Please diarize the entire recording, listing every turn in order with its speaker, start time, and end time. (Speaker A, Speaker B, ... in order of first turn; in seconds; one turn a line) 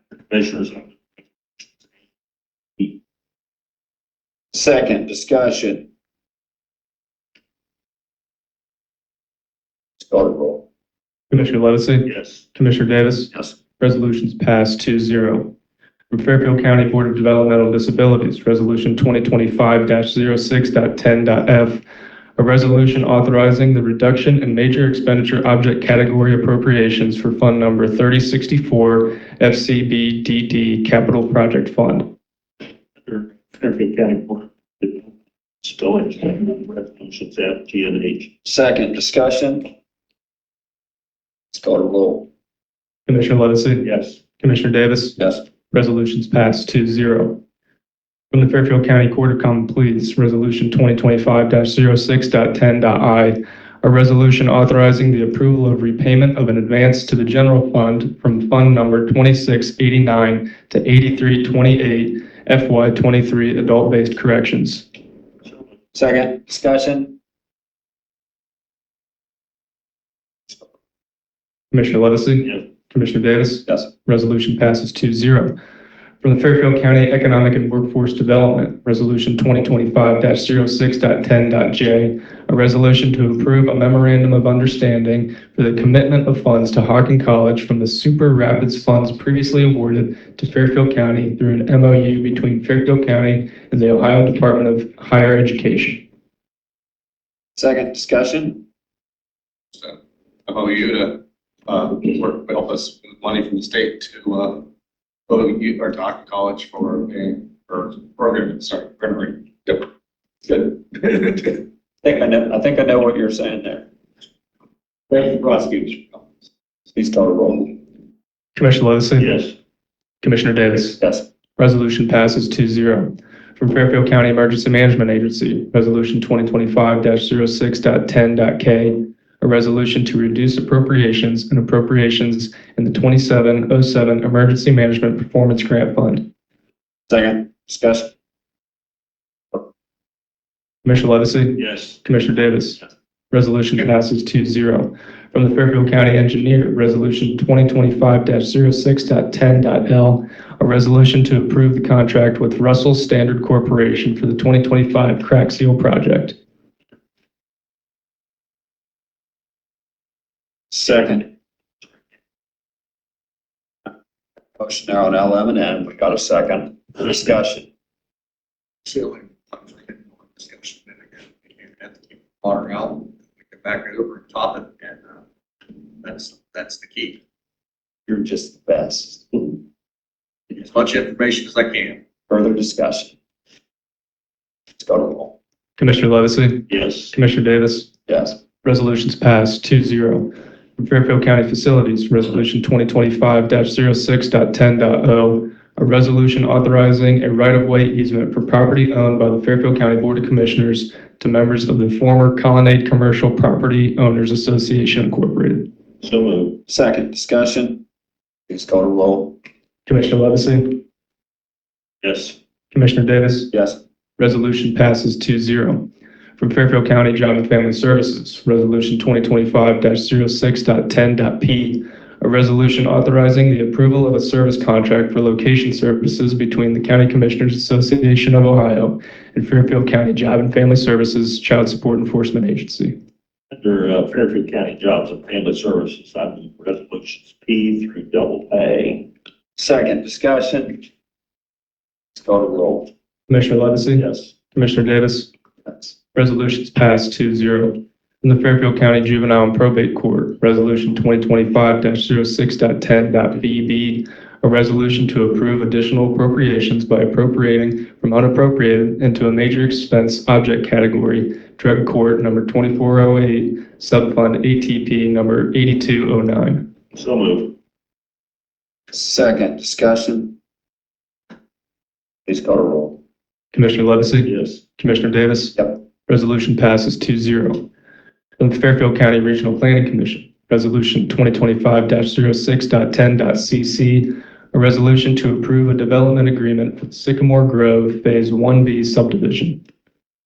Speaker A: 0.3-0.9
Speaker B: 4.5-5.8
Speaker B: 10.0-10.6
Speaker C: 11.3-15.5
Speaker A: 12.1-12.4
Speaker C: 16.1-21.8
Speaker C: 22.4-32.0
Speaker A: 33.0-35.1
Speaker A: 35.6-38.3
Speaker B: 38.4-39.7
Speaker B: 41.5-42.2
Speaker C: 43.1-43.9
Speaker A: 43.8-44.2
Speaker C: 44.4-45.2
Speaker C: 45.7-47.4
Speaker C: 48.3-64.8
Speaker B: 65.9-67.1
Speaker C: 71.7-75.5
Speaker C: 76.2-96.0
Speaker B: 97.5-98.6
Speaker D: 100.5-104.6
Speaker D: 105.3-109.8
Speaker D: 110.5-111.6
Speaker B: 112.0-113.8
Speaker D: 115.1-116.3
Speaker B: 116.9-117.7
Speaker C: 118.5-119.4
Speaker A: 119.2-119.5
Speaker C: 120.2-121.0
Speaker B: 121.0-121.2
Speaker C: 121.6-136.2
Speaker B: 137.1-138.1
Speaker C: 140.8-156.3
Speaker A: 141.6-142.0
Speaker B: 160.7-161.2
Speaker B: 164.6-167.7
Speaker D: 168.8-175.1
Speaker D: 176.0-177.2
Speaker B: 178.1-179.5
Speaker D: 180.5-182.0
Speaker B: 182.3-183.1
Speaker B: 184.8-185.3
Speaker C: 185.8-187.9
Speaker A: 186.7-187.1
Speaker B: 188.1-188.4
Speaker C: 188.6-205.7
Speaker A: 206.0-206.6
Speaker B: 206.7-207.8
Speaker B: 208.5-209.3
Speaker C: 209.9-210.8
Speaker A: 212.0-212.3
Speaker C: 212.7-213.5
Speaker B: 213.5-213.8
Speaker C: 214.2-215.8
Speaker C: 216.4-232.9
Speaker A: 233.5-239.1
Speaker B: 239.6-240.8
Speaker B: 242.1-242.9
Speaker C: 243.3-245.3
Speaker A: 243.9-244.3
Speaker C: 246.1-266.6
Speaker A: 266.9-267.5
Speaker B: 268.9-270.3
Speaker B: 272.2-273.0
Speaker C: 273.5-277.6
Speaker A: 274.2-274.6
Speaker C: 278.4-289.6